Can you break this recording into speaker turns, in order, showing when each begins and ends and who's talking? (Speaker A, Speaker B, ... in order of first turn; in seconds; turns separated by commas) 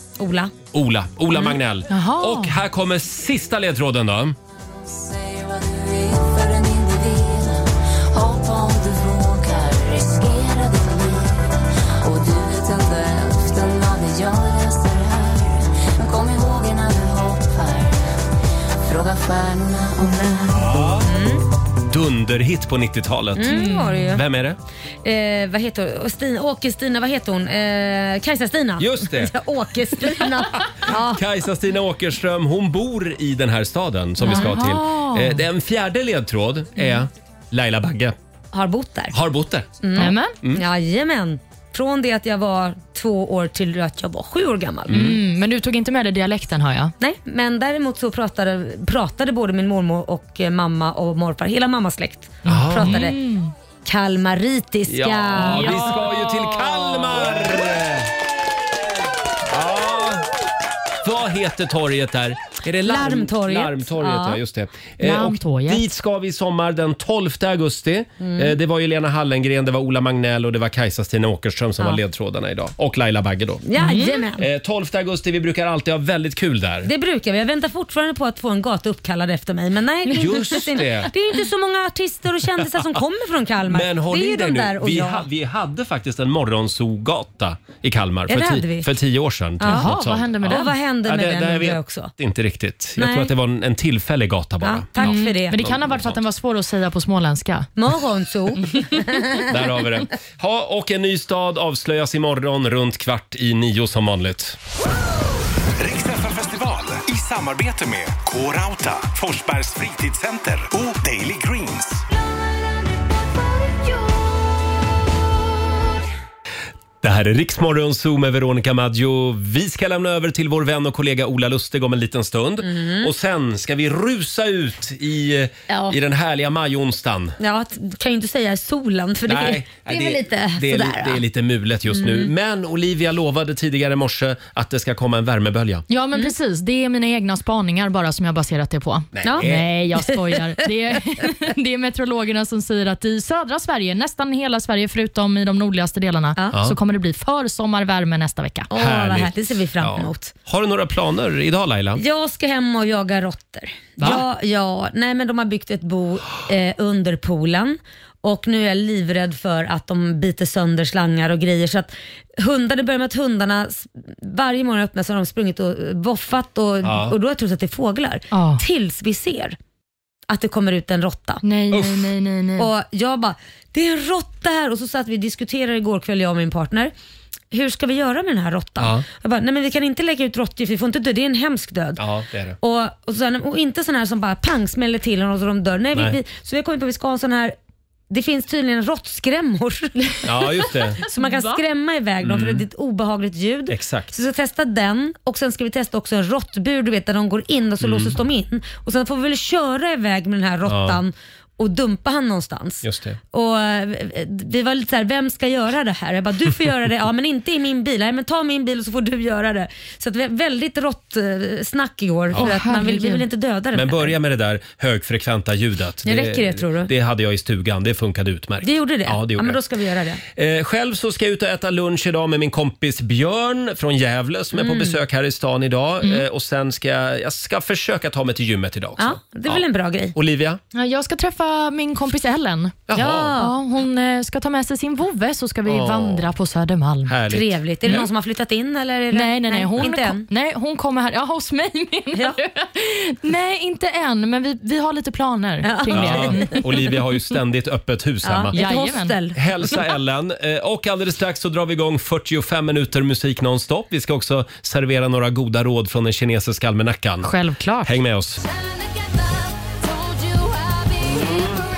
Speaker A: 0.2-0.5, Speaker B: 0.7-4.4, Speaker C: 1.9-2.6, Speaker D: 4.5-18.2, Speaker D: 18.9-20.7, Speaker A: 20.5-21.4, Speaker B: 20.5-21.1, Speaker B: 21.9-24.6, Speaker A: 23.4-24.2, Speaker C: 23.5-24.1, Speaker A: 25.0-31.2, Speaker B: 28.8-29.3, Speaker B: 30.9-38.1, Speaker C: 34.2-35.4, Speaker A: 34.3-34.5, Speaker A: 38.5-39.2, Speaker B: 39.1-39.8, Speaker A: 39.8-45.1, Speaker C: 40.0-40.3, Speaker B: 44.9-45.1, Speaker C: 44.9-46.9, Speaker A: 47.0-53.2, Speaker B: 52.5-53.1, Speaker C: 52.5-53.5, Speaker A: 53.9-56.0, Speaker B: 54.9-58.1, Speaker C: 55.4-56.0, Speaker B: 59.5-60.3, Speaker B: 61.0-73.6, Speaker A: 62.8-64.4, Speaker C: 65.0-65.8, Speaker A: 68.2-68.5, Speaker A: 73.7-74.5, Speaker C: 73.8-74.2, Speaker B: 74.4-76.9, Speaker A: 76.8-85.2, Speaker B: 80.1-81.1, Speaker B: 83.7-96.2, Speaker A: 88.3-88.9, Speaker A: 89.6-89.9, Speaker C: 89.7-90.7, Speaker A: 90.4-92.1, Speaker A: 93.0-93.3, Speaker A: 94.6-95.6, Speaker C: 95.0-97.7, Speaker A: 97.8-99.5, Speaker B: 99.5-104.6, Speaker E: 105.8-112.0, Speaker B: 117.0-127.3, Speaker A: 122.6-123.1, Speaker A: 125.7-126.0, Speaker A: 127.4-131.2, Speaker B: 129.2-135.8, Speaker A: 131.9-132.3, Speaker C: 135.9-148.7, Speaker B: 139.1-139.8, Speaker A: 140.1-140.7, Speaker A: 148.7-150.3, Speaker B: 148.7-152.0, Speaker A: 152.0-169.6, Speaker B: 166.8-167.1, Speaker C: 168.3-168.6, Speaker A: 170.3-171.4, Speaker C: 171.4-172.7, Speaker B: 171.7-172.1, Speaker A: 172.6-176.9, Speaker A: 177.5-182.0, Speaker B: 178.8-179.0, Speaker B: 182.0-182.6, Speaker A: 182.6-187.5, Speaker A: 188.1-190.3, Speaker B: 190.2-191.0, Speaker A: 191.0-214.1, Speaker C: 191.2-191.6, Speaker B: 192.2-192.6, Speaker B: 193.7-194.1, Speaker B: 197.8-198.2, Speaker B: 200.7-201.0, Speaker B: 202.8-203.2, Speaker C: 212.4-213.2, Speaker B: 213.7-219.6, Speaker A: 216.0-216.9, Speaker A: 218.6-220.2, Speaker B: 220.3-230.6, Speaker A: 224.5-225.0, Speaker A: 229.0-230.2, Speaker C: 230.7-237.1, Speaker B: 232.9-233.3, Speaker A: 232.9-233.5, Speaker B: 235.7-236.3, Speaker B: 237.1-238.1, Speaker A: 237.3-240.2, Speaker C: 239.1-246.6, Speaker A: 242.1-242.4, Speaker A: 245.6-246.6, Speaker B: 245.9-248.6, Speaker A: 248.2-249.4, Speaker C: 248.5-249.1, Speaker B: 249.3-257.3, Speaker C: 257.2-257.9, Speaker B: 257.8-258.4, Speaker D: 258.4-261.3, Speaker B: 261.1-261.5